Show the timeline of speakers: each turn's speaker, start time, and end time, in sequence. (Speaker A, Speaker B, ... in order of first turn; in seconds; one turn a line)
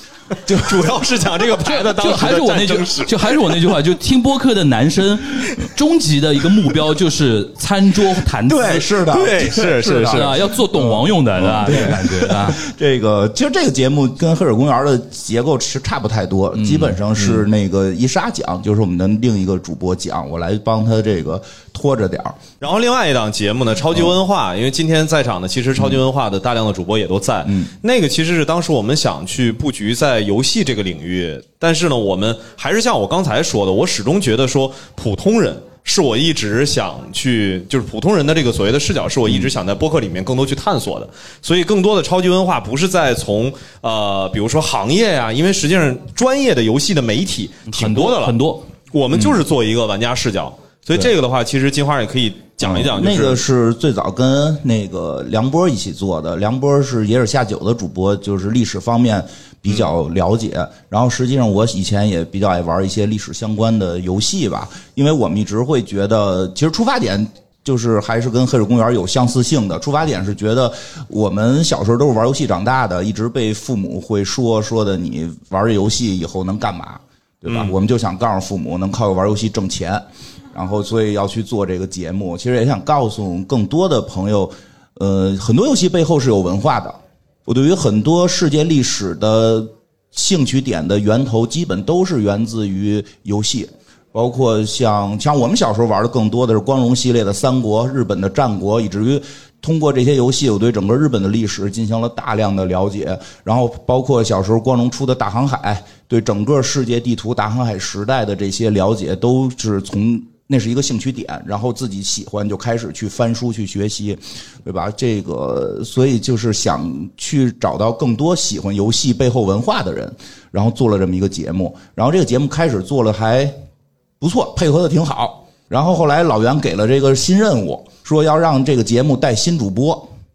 Speaker A: 0.5-1.1
Speaker B: 0.5-3.7
Speaker C: 1.6-8.8
Speaker B: 8.5-10.4
Speaker A: 8.5-22.4
Speaker C: 10.1-12.6
Speaker C: 16.6-16.9
Speaker B: 17.1-17.4
Speaker B: 22.6-48.4
Speaker A: 27.4-27.7
Speaker C: 47.7-48.7
Speaker B: 48.9-53.4
Speaker A: 52.6-123.5
Speaker B: 77.5-77.7
Speaker A: 124.2-130.1